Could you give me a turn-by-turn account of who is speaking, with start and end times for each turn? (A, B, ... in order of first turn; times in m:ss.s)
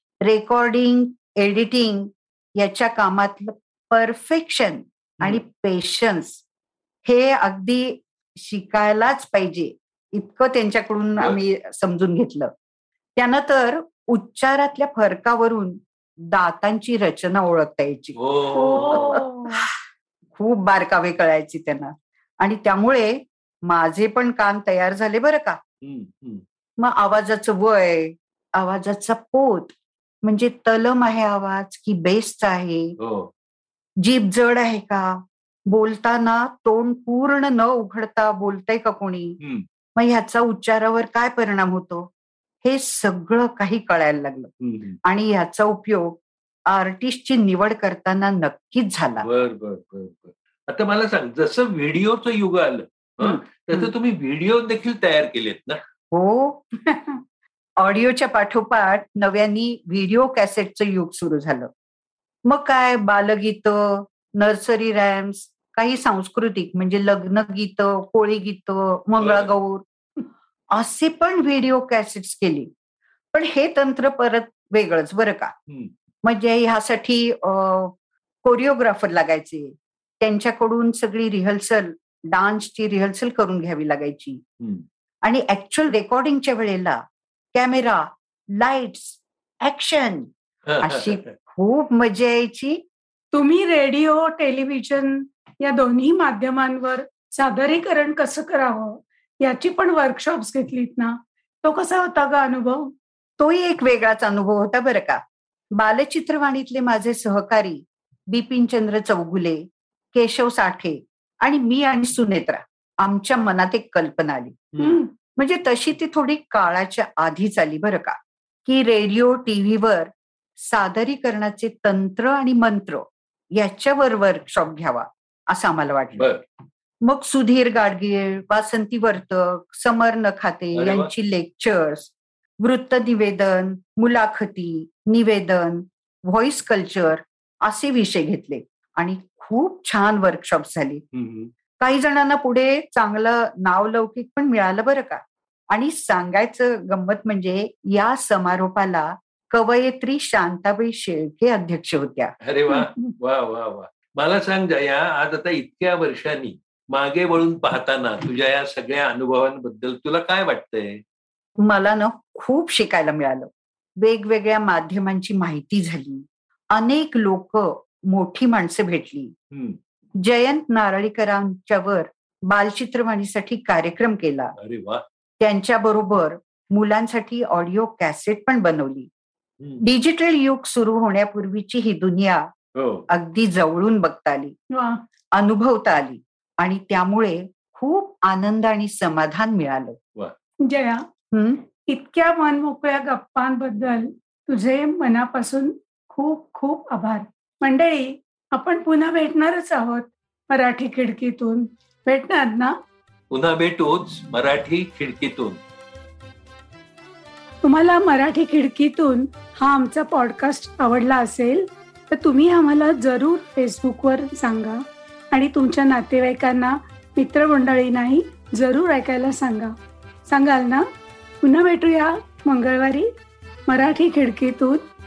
0:00.2-0:06.4 A
0:07.0-0:12.5 A
0:13.2-0:15.8 A
0:16.3-0:18.2 A
0:18.2-0:19.2 B
0:18.5-0:19.6 C
0:18.9-0:19.7 A
0:20.4-0:25.6 A
0:25.8-0:26.4 B
0:26.8-0:33.0 A
0:33.0-0:33.3 B
0:34.0-0:39.4 A
0:40.0-0:42.1 A
0:42.6-0:44.5 A
0:44.6-0:45.0 B
0:45.0-0:49.3 A
0:49.2-0:55.8 B
0:53.2-0:53.9 A
0:56.1-0:57.2 A
0:57.8-1:01.7 A
1:02.5-1:09.8 A
1:09.2-1:09.5 B
1:10.7-1:12.7 A
1:13.3-1:15.5 A
1:16.2-1:17.9 A
1:18.4-1:24.4 A
1:24.6-1:24.8 B
1:25.2-1:27.0 A
1:27.5-1:30.3 A
1:30.7-1:31.3 B
1:30.8-1:32.8 A
1:33.3-1:42.9 C
1:43.4-1:45.2 A
1:45.8-1:54.7 A
1:54.7-1:55.0 B
1:54.8-1:55.1 C
1:55.4-2:06.3 A
2:07.0-2:21.0 A
2:10.8-2:11.1 B
2:21.1-2:21.5 B
2:21.8-2:32.3 A
2:32.4-2:41.0 B
2:32.7-2:33.1 C
2:41.6-2:49.3 A
2:49.5-2:49.8 B
2:50.2-2:54.5 A
2:54.6-2:55.0 B
2:55.4-2:59.1 A
2:59.8-3:02.5 A
3:02.8-3:03.0 B
3:03.1-3:04.5 A
3:04.7-3:05.0 C
3:05.3-3:10.0 A
3:10.6-3:11.0 C
3:11.3-3:11.6 A
3:11.8-3:22.7 C
3:23.3-3:25.6 B
3:27.6-3:39.7 C
3:40.2-3:40.8 C
3:41.4-3:43.1 C
3:43.7-3:44.8 C